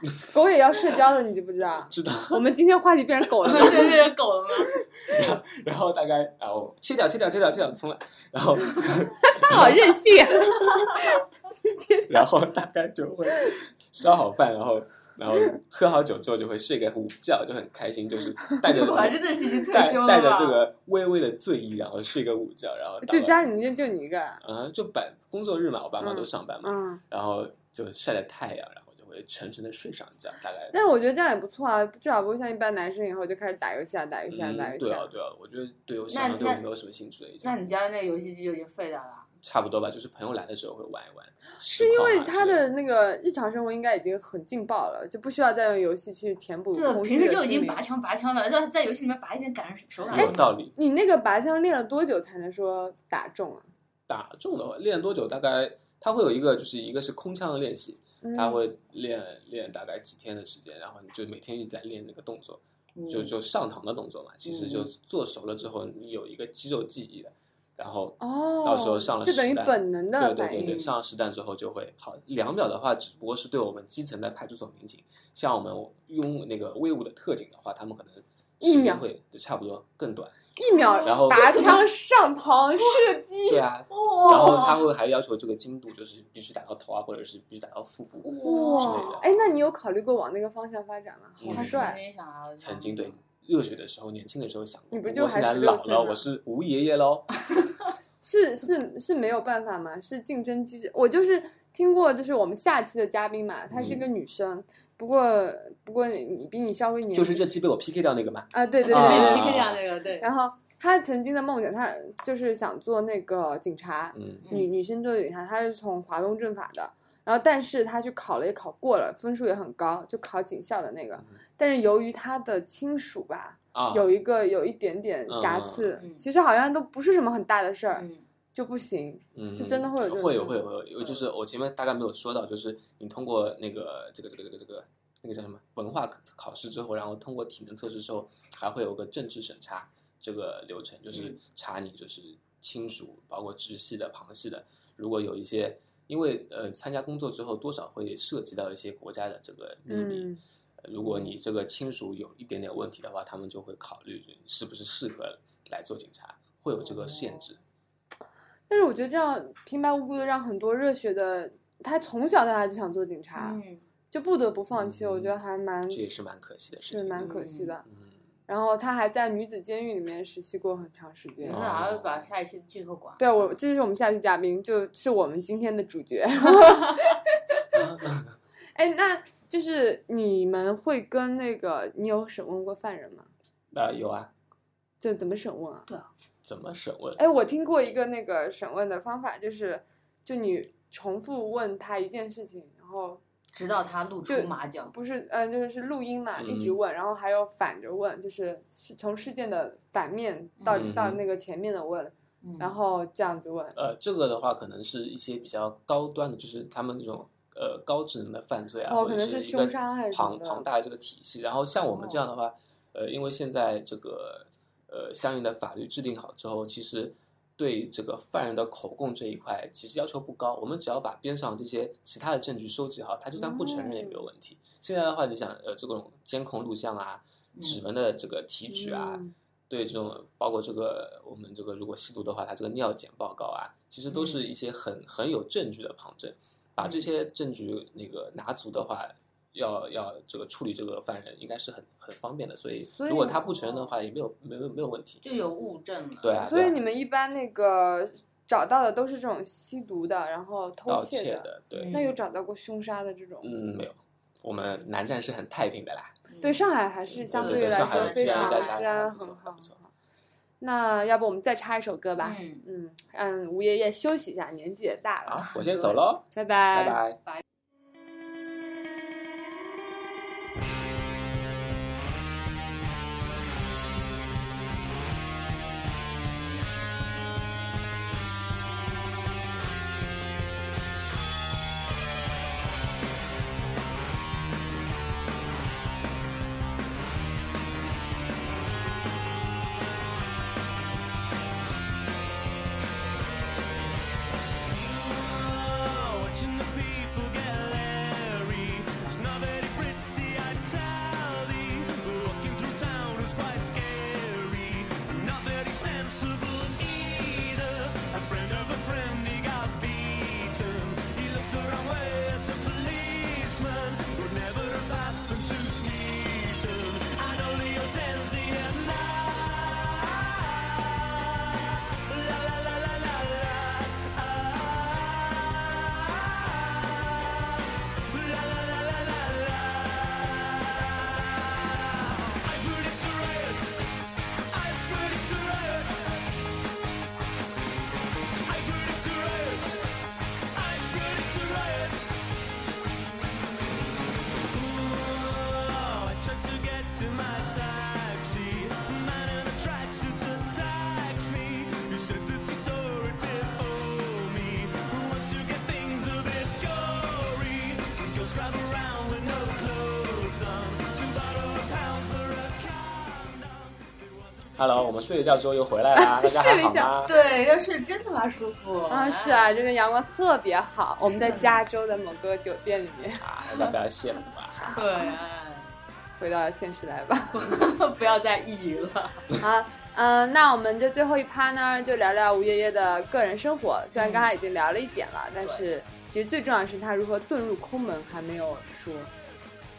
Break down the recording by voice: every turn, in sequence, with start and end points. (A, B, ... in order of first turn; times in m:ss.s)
0:00.3-0:04.1 A
0:01.9-0:02.4 B
0:03.4-0:04.7 C
0:05.1-0:09.9 B
0:09.3-0:11.0 A
0:11.6-0:12.1 A
0:12.1-0:23.4 B
0:18.6-0:20.6 C
0:23.0-0:24.4 A
0:24.4-0:30.8 B
0:26.0-0:27.0 A
0:30.7-0:35.1 A
0:34.3-0:37.6 B
0:36.1-0:36.6 C
0:37.4-0:39.3 C
0:39.4-0:42.7 B
0:41.7-0:47.8 A
0:46.7-0:50.5 C
0:50.1-0:53.7 A
0:50.1-0:50.7 B
0:54.1-1:20.5 B
0:58.2-0:58.6 A
1:03.0-1:03.3 C
1:04.4-1:04.9 C
1:08.2-1:10.9 A
1:18.6-1:19.0 A
1:20.6-1:23.3 A
1:20.7-1:21.8 C
1:21.0-1:21.8 B
1:22.8-1:24.8 C
1:23.5-1:29.4 B
1:24.3-1:24.7 A
1:28.2-1:29.2 C
1:28.4-1:32.0 A
1:31.4-1:31.9 B
1:31.5-1:33.2 C
1:32.6-1:37.3 B
1:34.9-1:36.2 A
1:38.2-1:47.5 A
1:43.7-1:44.0 B
1:47.1-1:49.8 B
1:48.5-1:49.6 A
1:48.8-1:50.3 C
1:50.2-2:10.6 A
1:54.1-1:54.5 B
1:54.5-1:54.7 C
2:03.7-2:04.1 B
2:05.3-2:06.0 B
2:06.0-2:06.2 C
2:07.9-2:08.2 C
2:09.4-2:30.3 B
2:21.1-2:21.4 C
2:29.9-2:30.4 A
2:30.8-2:37.6 B
2:36.8-2:37.4 C
2:38.7-2:43.6 A
2:43.4-2:43.8 C
2:44.1-2:46.0 A
2:44.7-2:45.4 B
2:45.9-2:47.3 B
2:46.9-2:47.8 A
2:47.2-2:47.8 C
2:47.9-2:48.2 B
2:48.5-2:51.6 A
2:51.4-2:53.4 C
2:51.4-2:52.3 B
2:53.2-2:57.1 A
2:56.6-2:57.1 C
2:57.7-2:58.4 B
2:58.8-3:03.3 A
3:03.7-3:04.3 B
3:05.0-3:05.9 A
3:06.4-3:07.2 B
3:07.2-3:13.2 A
3:13.5-3:14.9 C
3:14.3-3:23.8 A
3:16.4-3:16.8 B
3:20.6-3:20.9 C
3:20.7-3:21.2 B
3:22.4-3:22.8 C
3:23.8-4:05.2 B
3:28.9-3:30.7 A
3:31.9-3:32.2 C
3:43.4-3:44.2 A
3:47.6-3:47.8 C
3:48.7-3:49.3 A
3:54.1-3:54.4 C
4:03.0-4:03.8 A
4:05.2-4:06.5 C
4:06.2-4:06.8 B
4:06.4-4:13.5 A
4:10.9-4:12.0 B
4:11.8-4:12.2 C
4:13.4-4:16.2 B
4:16.3-4:16.7 C
4:16.4-4:19.8 A
4:17.1-4:19.8 B
4:17.3-4:18.9 C
4:20.6-4:27.0 A
4:22.2-4:22.6 C
4:25.3-4:27.2 B
4:54.7-5:34.0 D
5:34.5-5:36.3 D
5:38.4-5:40.0 D
5:40.5-5:42.2 D
5:44.4-6:04.6 D
6:04.6-6:07.1 B
6:06.0-6:06.9 A
6:07.0-6:09.5 C
6:08.9-6:13.2 A
6:11.0-6:11.7 C
6:13.2-6:14.8 B
6:14.7-6:15.7 C
6:16.2-6:17.6 A
6:17.3-6:19.3 C
6:19.3-6:29.1 A
6:24.0-6:24.3 C
6:25.4-6:25.7 C